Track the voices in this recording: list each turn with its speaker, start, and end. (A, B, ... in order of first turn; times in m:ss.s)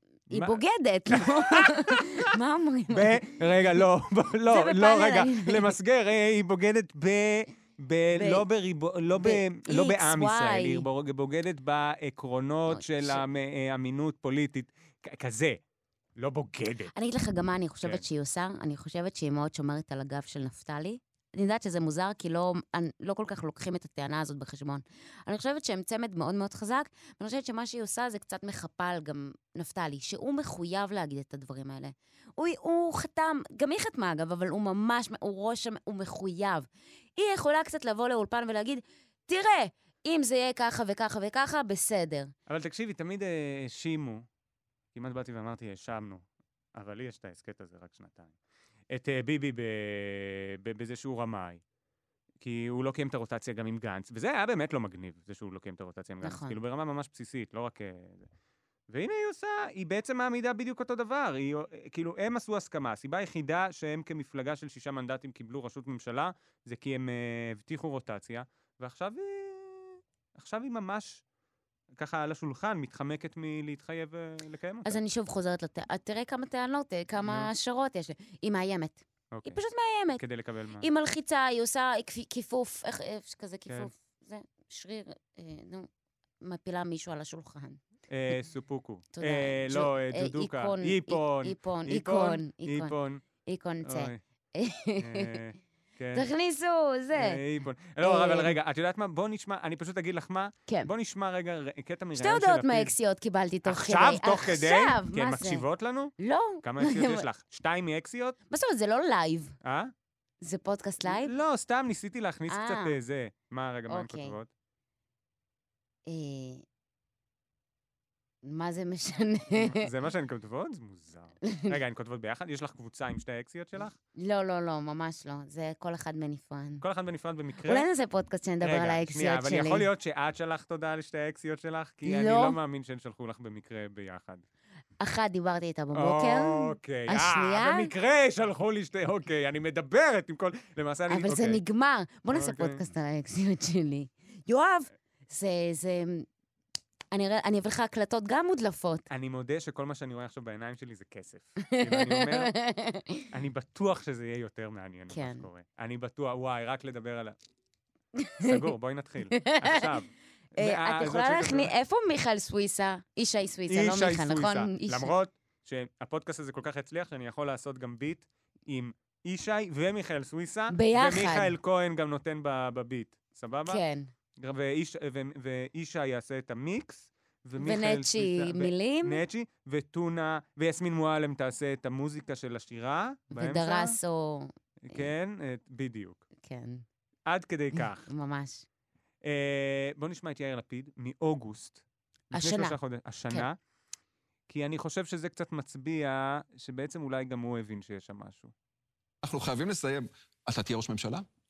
0:00.3-0:03.4 A
0:00.3-0:00.6 B
0:01.1-0:02.3 B
0:02.9-0:15.6 B
0:04.5-0:05.7 A
0:08.2-0:08.4 A
0:09.2-0:10.8 A
0:12.7-0:13.2 A
0:16.2-0:16.9 B
0:16.9-0:42.3 A
0:42.5-0:44.2 B
0:44.9-0:46.2 B
0:46.7-0:48.3 B
0:48.9-0:51.6 B
0:52.4-0:58.3 B
0:56.2-0:56.6 A
0:58.9-1:11.2 B
1:12.0-1:15.0 B
1:14.8-1:20.2 A
1:17.2-1:17.5 B
1:19.3-1:19.6 B
1:20.2-1:20.8 B
1:20.8-1:25.9 A
1:26.4-1:27.8 A
1:28.1-1:33.2 B
1:29.1-1:32.9 A
1:33.4-1:35.4 A
1:33.8-1:34.2 B
1:35.0-1:36.3 B
1:36.1-1:37.4 A
1:37.1-1:42.9 B
1:38.0-1:38.5 A
1:42.2-1:45.6 A
1:43.6-1:48.4 B
1:46.2-1:47.2 A
1:48.5-1:49.5 A
1:49.6-1:49.9 B
1:50.4-1:51.3 A
1:51.0-1:54.5 B
1:52.5-1:52.9 A
1:53.9-1:54.3 A
1:56.0-1:56.6 A
1:58.4-1:59.8 A
1:59.7-2:03.9 B
2:01.4-2:01.7 A
2:04.2-2:06.8 A
2:06.8-2:07.9 B
2:07.7-2:09.9 A
2:08.6-2:14.4 B
2:12.0-2:12.6 A
2:15.0-2:17.9 A
2:15.9-2:21.6 B
2:21.1-2:26.2 A
2:22.3-2:22.8 B
2:27.1-2:29.0 A
2:29.1-2:32.5 B
2:31.7-2:33.2 A
2:33.3-2:37.3 B
2:35.1-2:35.5 A
2:38.2-2:38.6 A
2:38.4-2:41.7 B
2:39.3-2:39.9 A
2:40.6-2:45.1 A
2:43.7-2:53.8 B
2:50.7-2:51.5 A
2:53.7-2:54.1 A
2:54.4-3:04.0 B
2:57.6-2:59.2 A
3:03.3-3:05.0 A
3:04.8-3:06.2 B
3:06.4-3:06.8 A
3:07.2-3:08.1 B
3:07.7-3:08.6 A
3:09.2-3:11.8 B
3:12.3-3:12.8 A
3:12.3-3:13.6 B
3:14.5-3:18.5 B
3:19.2-3:21.2 C